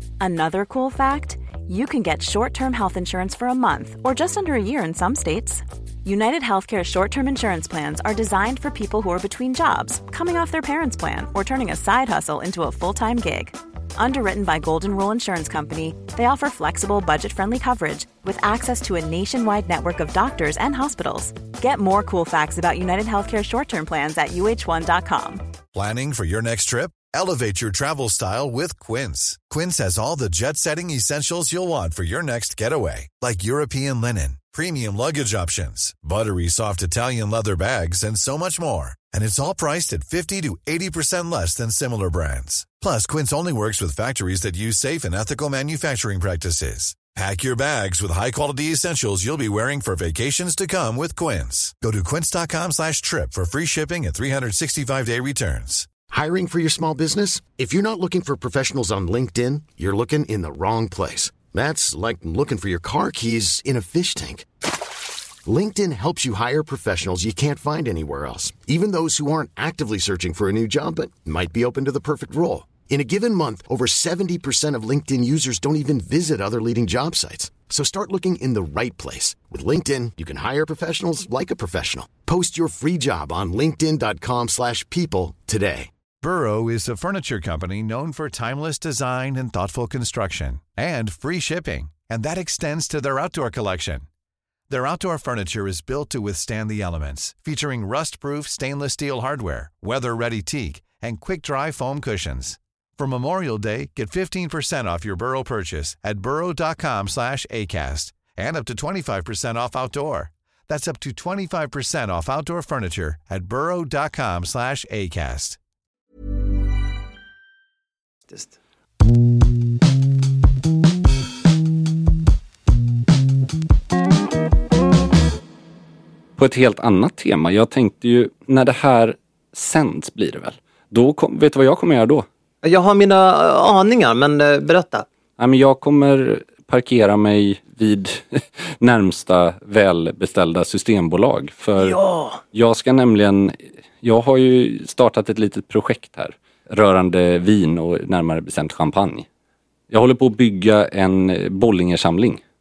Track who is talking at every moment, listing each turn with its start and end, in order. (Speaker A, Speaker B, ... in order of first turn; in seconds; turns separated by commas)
Speaker A: 0.2-25.5, Speaker B: 25.7-55.9, Speaker C: 56.1-64.5, Speaker C: 65.5-85.9, Speaker B: 86.2-94.1, Speaker B: 94.7-115.6, Speaker D: 126.4-132.3, Speaker E: 132.6-135.1, Speaker D: 135.4-142.0, Speaker E: 141.8-142.4, Speaker D: 142.5-149.3, Speaker D: 149.9-152.4